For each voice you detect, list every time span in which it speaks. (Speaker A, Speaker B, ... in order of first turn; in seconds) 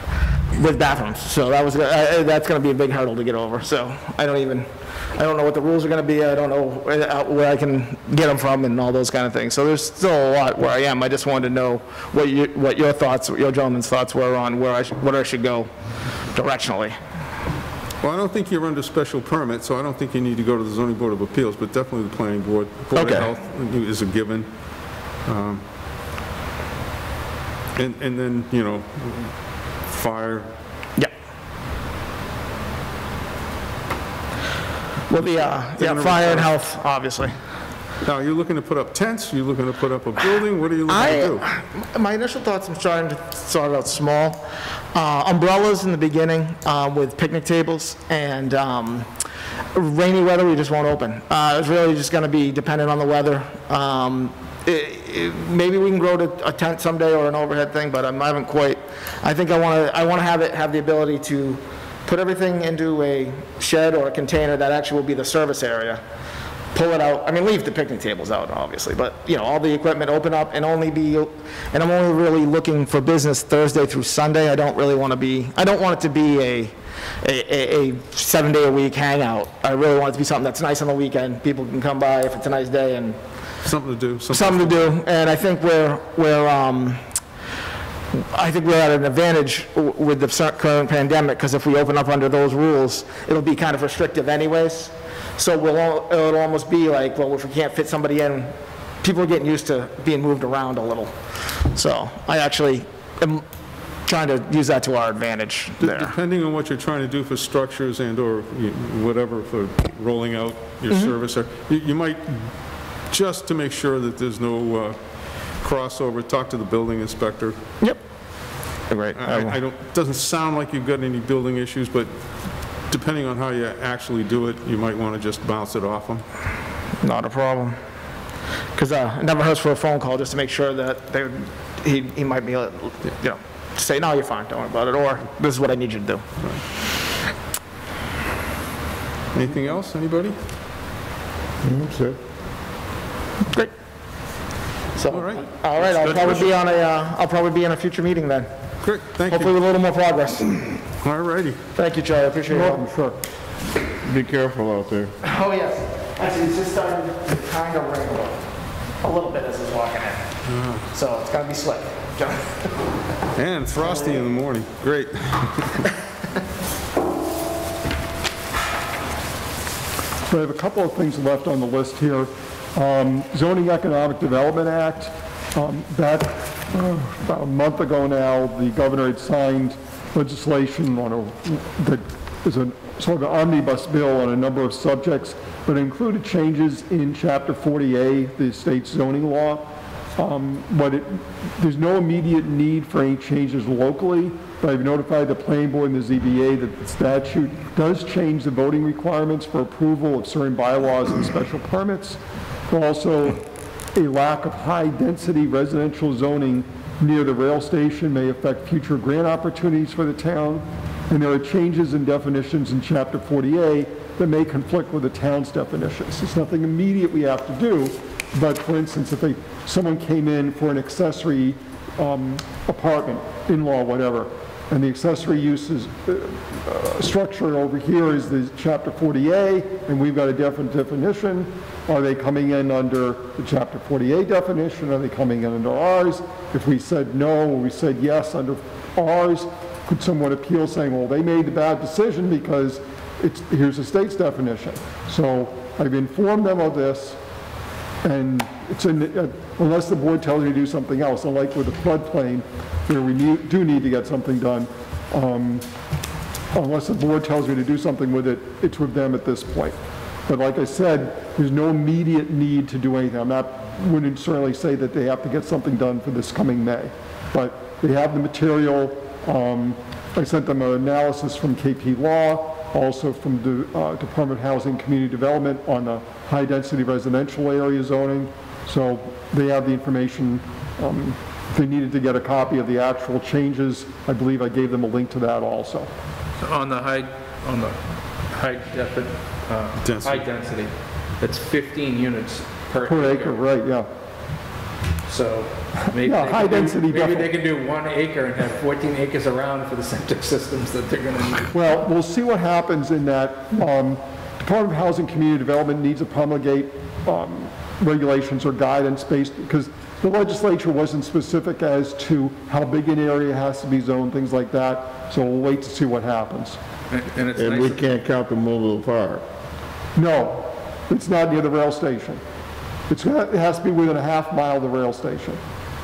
Speaker A: 0.5-15.7, 16.3-17.0, 22.9-23.3, 35.1-37.4, 40.9-49.1, 49.7-66.0, 66.7-83.2, 84.3-87.0, 88.1-101.2, 101.7-103.5, 104.0-106.1, 117.8-119.6, 127.0-127.8, 128.7-136.2, 144.9-148.5, 149.3-150.8, 151.8-152.8, 155.2-158.4, 159.0-160.2, 160.9-162.7, 163.8-164.1
Speaker B: 18.0-25.6, 27.8-30.5, 35.1-36.5, 38.0-41.4, 83.6-84.9, 105.8-117.5, 119.1-126.2, 139.3-140.3, 145.1-146.5, 148.8-149.6, 151.0-151.6, 160.4-160.8, 163.3-165.9, 289.8-290.3
Speaker C: 141.6-142.2, 154.0-155.1, 317.4-319.2
Speaker D: 152.5-153.2, 170.3-247.2, 248.0-255.7, 256.5-285.9, 292.8-293.9, 295.9-297.3, 301.5-316.6, 319.9-322.2, 322.9-325.4
Speaker E: 286.4-293.4, 295.1-301.5, 316.9-317.9